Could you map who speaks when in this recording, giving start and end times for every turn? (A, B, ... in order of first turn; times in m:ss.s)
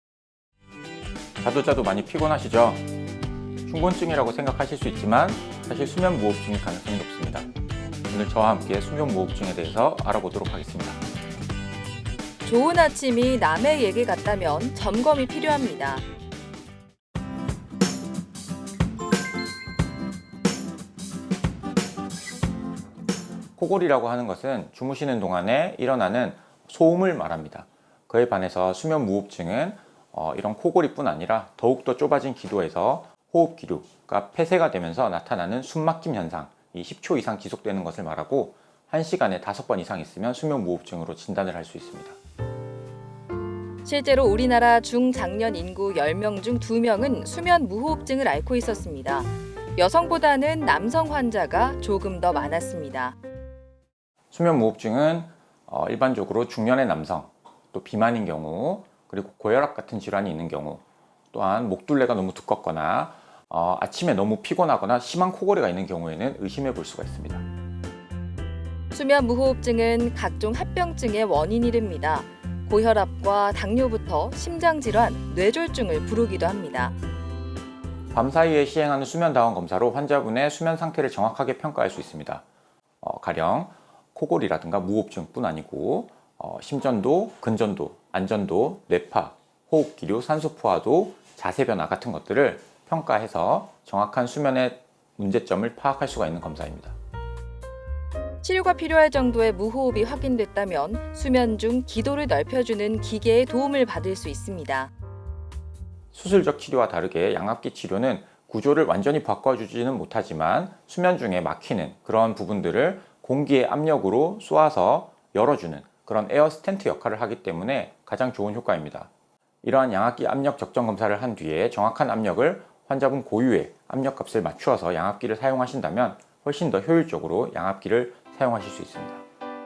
0:01.4-0:02.9 A
0:03.6-0:07.5 A
0:08.1-0:11.0 A
0:12.4-0:16.0 B
0:23.6-0:42.2 A
0:43.8-0:53.2 B
0:54.3-1:00.8 A
1:01.3-1:07.4 A
1:08.9-1:17.0 B
1:18.1-1:22.4 A
1:23.0-1:37.0 A
1:38.4-1:44.9 B
1:46.1-1:59.1 A
1:59.6-2:09.2 A